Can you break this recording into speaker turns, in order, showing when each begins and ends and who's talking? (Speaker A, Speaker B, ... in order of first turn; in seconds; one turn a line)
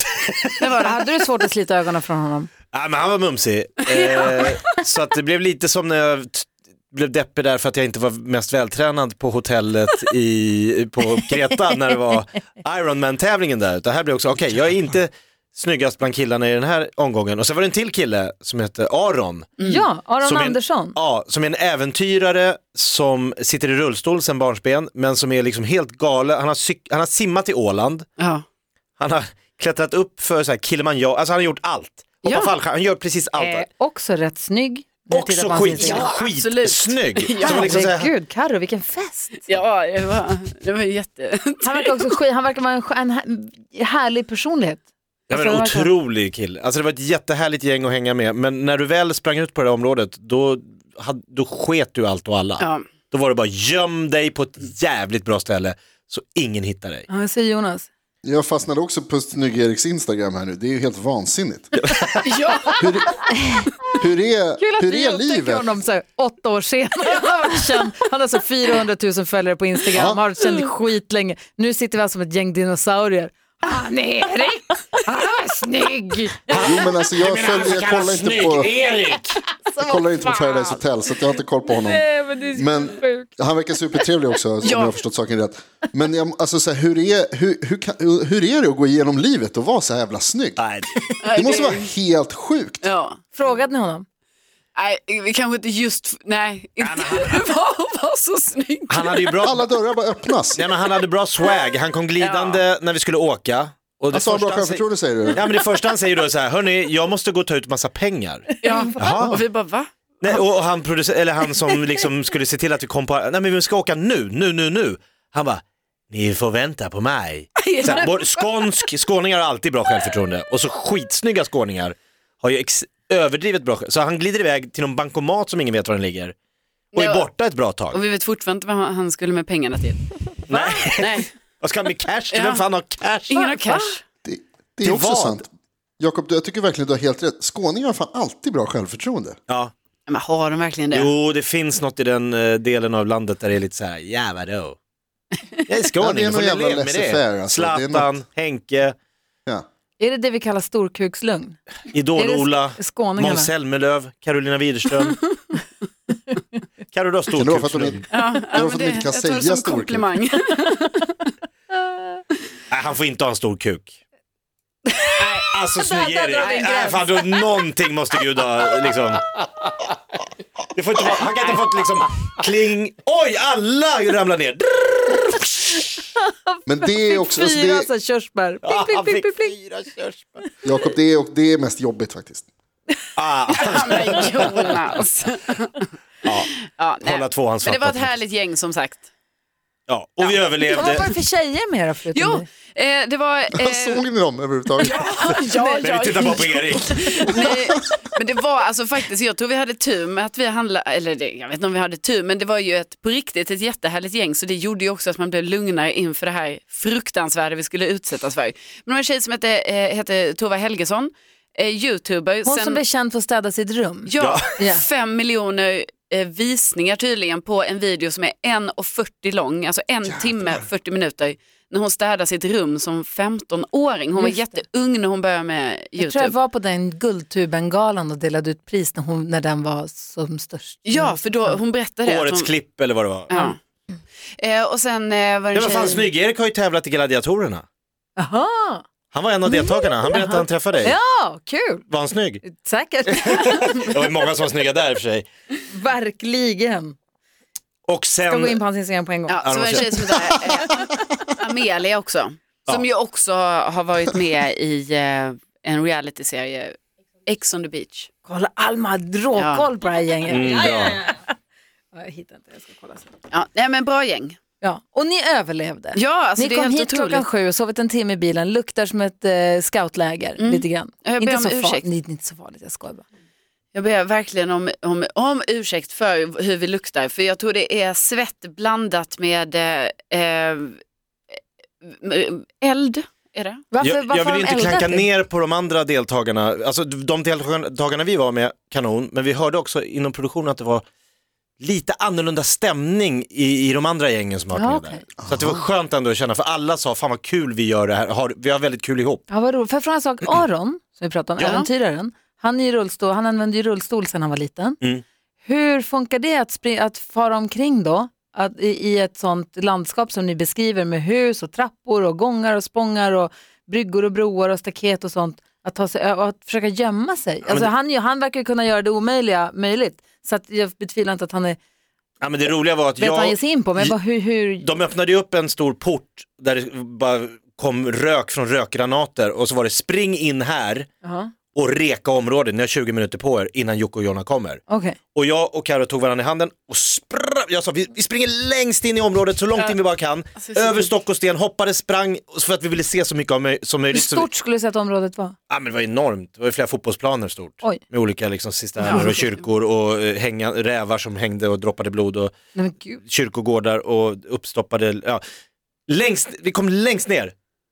Speaker A: 0.2-0.6
Speaker B: 0.6-1.0
Speaker C: 0.8-2.5
Speaker A: 2.7-19.6
Speaker B: 3.9-4.6
Speaker B: 19.6-19.9
Speaker C: 19.6-21.0
Speaker A: 20.2-28.1
Speaker A: 29.0-33.7
Speaker B: 32.2-32.5
Speaker C: 33.4-36.1
Speaker A: 35.1-38.1
Speaker B: 35.7-37.9
Speaker C: 37.4-39.5
Speaker B: 39.5-41.9
Speaker C: 41.6-45.9
Speaker A: 45.3-57.1
Speaker B: 52.6-52.9
Speaker C: 57.1-57.9
Speaker D: 58.2-62.0
Speaker B: 62.2-63.2
Speaker D: 62.8-65.8
Speaker C: 64.6-76.7
Speaker D: 69.9-70.2
Speaker A: 76.5-79.4
Speaker D: 76.5-78.7
Speaker C: 79.7-80.0
Speaker D: 79.8-90.6
Speaker B: 80.2-80.8
Speaker C: 81.7-83.3
Speaker B: 84.6-85.0
Speaker A: 90.6-91.2
Speaker B: 91.2-91.9
Speaker D: 91.3-92.9
Speaker B: 92.8-93.2
Speaker C: 93.3-94.1
Speaker B: 94.8-99.4
Speaker A: 96.8-97.5
Speaker A: 98.9-99.6
Speaker D: 99.4-100.7
Speaker A: 100.5-109.4
Speaker B: 102.2-102.6
Speaker D: 104.1-105.5
Speaker C: 108.6-109.3
Speaker B: 108.6-110.4
Speaker A: 110.2-126.3
Speaker B: 117.6-118.6
Speaker B: 126.9-127.3
Speaker A: 127.0-128.0
Speaker B: 127.9-130.1
Speaker A: 130.5-133.4
Speaker C: 130.5-131.0
Speaker B: 131.0-131.3
Speaker B: 132.3-132.6
Speaker B: 133.3-134.0
Speaker C: 133.3-134.0
Speaker D: 134.2-139.4
Speaker A: 134.8-135.4
Speaker A: 139.5-139.7
Speaker B: 140.1-141.1
Speaker A: 140.9-144.8
Speaker A: 145.7-148.9
Speaker D: 146.0-148.1
Speaker C: 150.0-151.6
Speaker A: 151.9-155.2
Speaker C: 152.2-153.5
Speaker A: 156.9-158.1
Speaker D: 157.4-160.1
Speaker B: 158.1-161.2
Speaker A: 162.7-163.9
Speaker B: 165.2-165.5
Speaker A: 165.4-169.4
Speaker C: 165.7-167.4
Speaker B: 166.4-167.0
Speaker A: 170.8-175.9
Speaker B: 171.2-171.7
Speaker C: 176.2-179.6
Speaker D: 176.7-177.9
Speaker A: 178.6-180.4
Speaker D: 180.6-182.5
Speaker A: 183.2-184.7
Speaker B: 183.5-185.9
Speaker B: 186.7-189.1
Speaker A: 187.0-188.1
Speaker A: 189.9-191.1
Speaker B: 190.2-191.1
Speaker C: 190.7-192.4
Speaker B: 192.1-194.1
Speaker D: 193.5-195.1
Speaker B: 194.8-212.8
Speaker C: 195.5-196.3
Speaker A: 195.8-197.4
Speaker C: 212.5-214.8
Speaker B: 214.1-226.4
Speaker A: 214.2-214.5
Speaker C: 224.2-224.6
Speaker C: 226.0-231.6
Speaker B: 230.8-232.6
Speaker A: 232.1-233.3
Speaker B: 233.3-233.6
Speaker B: 234.4-236.1
Speaker A: 235.5-237.7
Speaker C: 238.2-238.8
Speaker A: 239.1-241.0
Speaker C: 240.1-241.9
Speaker A: 241.9-242.4
Speaker C: 242.4-243.8
Speaker A: 243.1-245.3
Speaker C: 245.7-247.0
Speaker A: 247.9-248.6
Speaker C: 248.3-249.4
Speaker B: 249.3-258.1
Speaker A: 249.4-250.2
Speaker C: 258.3-261.4
Speaker B: 259.4-259.7
Speaker A: 260.3-261.0
Speaker C: 261.9-263.1
Speaker B: 263.3-264.4
Speaker C: 264.6-273.0
Speaker B: 265.9-267.2
Speaker B: 270.4-271.9
Speaker B: 273.7-280.8
Speaker B: 281.8-283.6
Speaker C: 283.7-285.1
Speaker A: 283.8-290.9
Speaker A: 291.6-299.2
Speaker C: 294.5-295.0
Speaker D: 295.2-295.6
Speaker C: 299.3-304.8
Speaker A: 301.4-301.6
Speaker B: 301.4-301.7
Speaker C: 305.4-321.6
Speaker A: 322.2-324.0
Speaker C: 323.0-324.7
Speaker A: 324.6-330.9
Speaker C: 331.0-331.3
Speaker A: 331.5-334.6
Speaker C: 334.7-335.0
Speaker A: 335.1-344.3
Speaker B: 340.4-340.9
Speaker C: 343.9-345.4
Speaker A: 345.5-352.3
Speaker B: 348.8-349.4
Speaker C: 352.6-353.0
Speaker A: 353.0-355.2
Speaker A: 355.9-357.3